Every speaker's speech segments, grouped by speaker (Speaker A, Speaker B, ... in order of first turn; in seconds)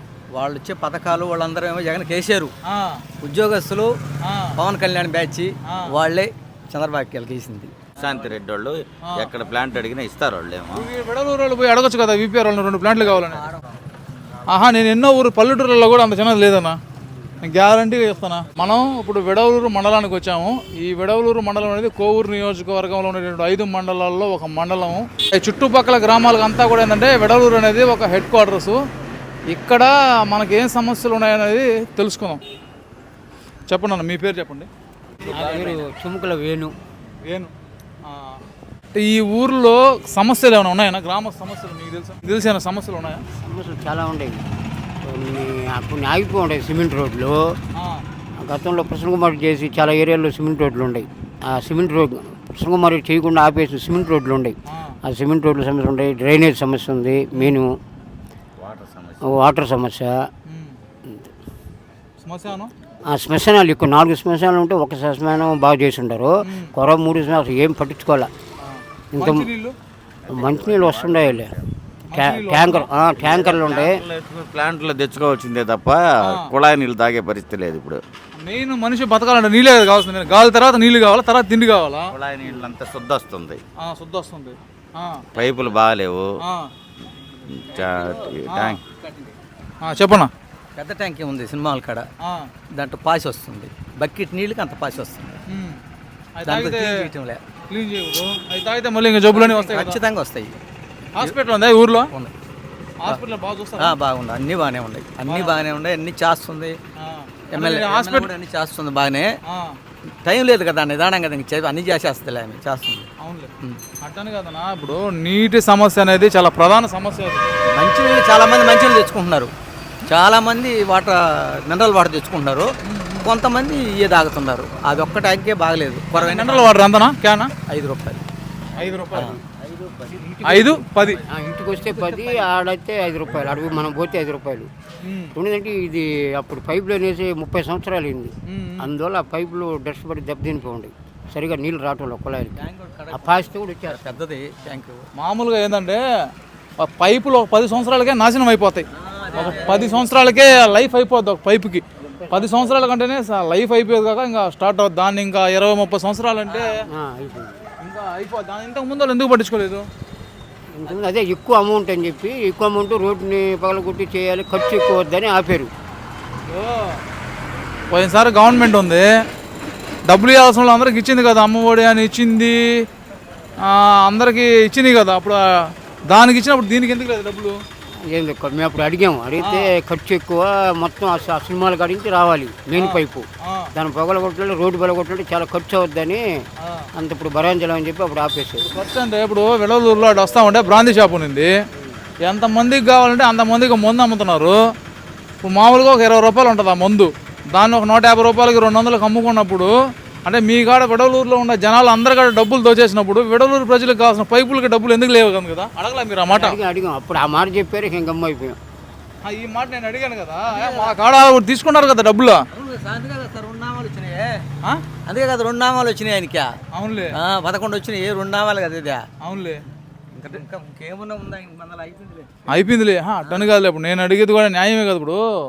Speaker A: 0.3-2.5, 3.2-3.9, 4.5-8.3, 13.0-13.8, 35.2-35.8, 87.7-89.3, 90.8-92.1, 92.7-95.4, 96.5-97.4, 99.3-100.5, 103.8-106.8, 107.5-109.3, 110.2-113.1, 117.7-119.5, 120.0-122.7, 123.2-126.8, 127.7-128.2, 129.1-129.4, 131.8-132.6, 142.6-145.0, 149.0-150.0, 156.5-156.8, 210.5-210.9, 212.5-214.4, 215.0-216.5, 217.1-219.0, 220.1-222.4, 223.2-223.5
Speaker B: 2.6-3.0, 4.2-4.6, 5.7-6.0, 9.0-9.3, 10.7-13.4, 14.5-16.8, 17.4-28.8, 29.5-32.4, 33.7-34.7, 35.3-35.7, 37.3-37.5, 38.0-38.4, 38.9-43.2, 47.8-48.0, 54.7-55.0, 57.3-57.6, 60.5-60.8, 62.2-62.7, 66.5-66.7, 68.6-69.8, 72.1-72.9, 76.2-76.5, 78.4-82.1, 83.8-85.2, 86.4-86.7, 88.5-88.8, 89.8-90.3, 92.2-92.5, 95.5-95.8, 96.3-97.0, 97.7-100.0, 101.1-102.1, 103.0-103.9, 105.2-105.6, 107.0-108.3, 109.5-109.8, 113.2-117.5, 122.8-123.3, 126.2-127.5, 128.8-129.3, 130.4-131.2, 135.0-135.3, 138.5-138.9, 145.1-146.0, 146.8-156.8, 157.8-159.9, 166.5-167.0, 167.9-169.1, 170.1-172.8, 173.6-177.6, 179.4-179.7, 182.8-183.7, 186.6-186.9, 188.7-191.5, 192.2-194.7, 195.4-199.7, 200.2-206.6, 209.2-212.4, 216.7-217.2, 219.2-219.6, 222.5-225.2
Speaker C: 8.0-10.9, 58.6-59.4, 70.2-71.6, 73.2-78.0, 82.1-83.6, 85.3-86.3, 87.6-88.8
Speaker D: 35.2-36.7, 43.4-44.4, 45.0-47.6, 48.4-57.7, 59.2-60.3, 61.0-61.3, 63.1-68.3, 69.1-69.5, 70.3-71.5, 72.1-74.0, 128.9-129.4, 129.9-134.7, 135.3-144.1, 149.3-150.1, 152.3-152.6, 156.9-157.6, 160.7-165.7, 178.1-186.2, 186.9-188.7, 206.3-208.6